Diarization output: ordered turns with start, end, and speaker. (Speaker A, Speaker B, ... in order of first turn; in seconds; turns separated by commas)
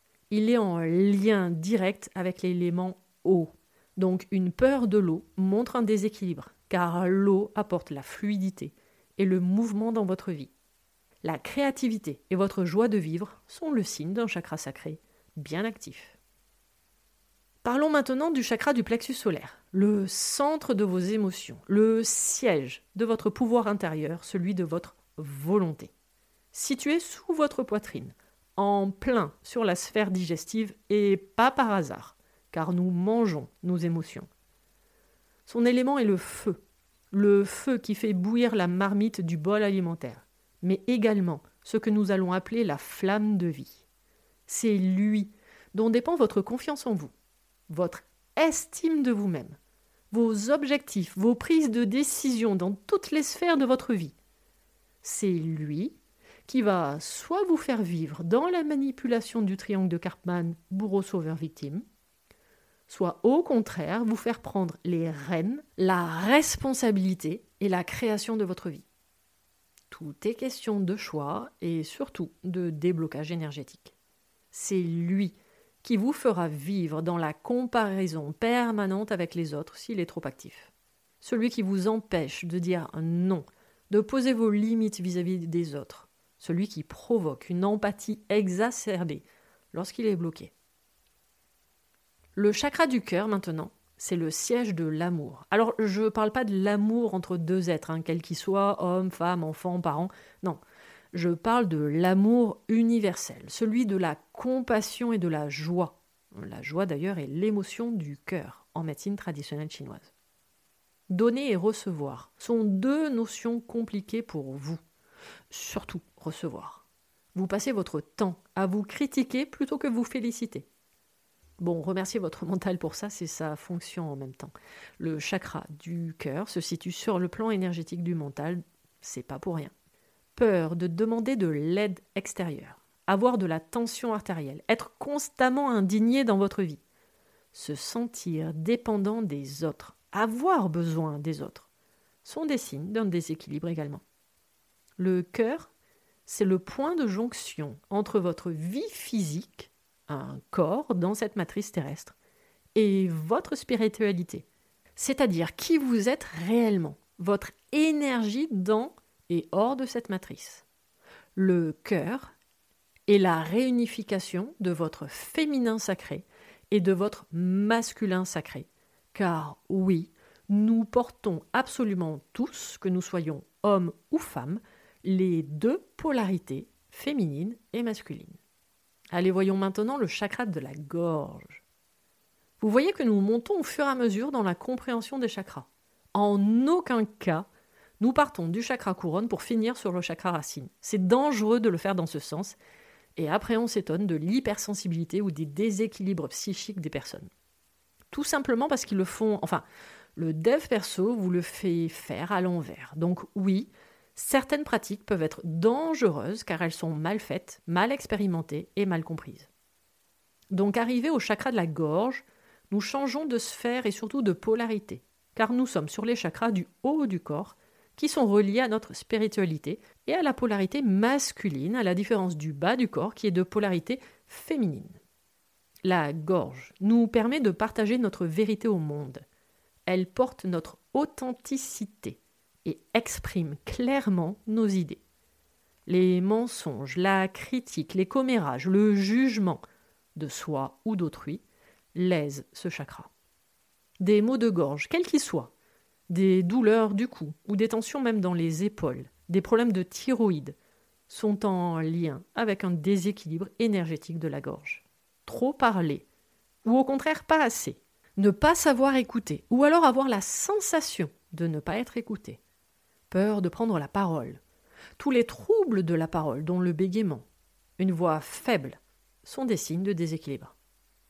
Speaker A: 0.3-10.5, Speaker A: 11.2-16.2, Speaker A: 17.6-25.9, Speaker A: 26.5-34.3, Speaker A: 35.5-43.8, Speaker A: 44.5-47.1, Speaker A: 47.7-49.6, Speaker A: 50.1-54.1, Speaker A: 55.0-61.8, Speaker A: 62.9-68.9, Speaker A: 69.9-73.9, Speaker A: 74.5-80.7, Speaker A: 81.2-90.5, Speaker A: 92.4-100.6, Speaker A: 101.1-110.1, Speaker A: 111.1-114.8, Speaker A: 115.5-116.8, Speaker A: 117.3-120.7, Speaker A: 121.6-129.7, Speaker A: 130.4-136.8, Speaker A: 137.5-141.7, Speaker A: 142.2-144.0, Speaker A: 145.0-145.7, Speaker A: 146.3-152.2, Speaker A: 152.8-160.7, Speaker A: 161.3-162.3, Speaker A: 163.1-178.4, Speaker A: 179.1-181.6, Speaker A: 182.6-187.5, Speaker A: 188.0-192.6, Speaker A: 193.2-197.3, Speaker A: 198.1-199.6, Speaker A: 200.2-209.5, Speaker A: 210.5-225.0, Speaker A: 225.8-229.2, Speaker A: 229.9-235.0, Speaker A: 235.9-239.6, Speaker A: 240.2-241.4, Speaker A: 241.9-243.1, Speaker A: 244.0-245.5, Speaker A: 246.1-250.6, Speaker A: 251.1-256.1, Speaker A: 256.6-262.4, Speaker A: 263.1-264.4, Speaker A: 265.0-267.3, Speaker A: 267.8-270.5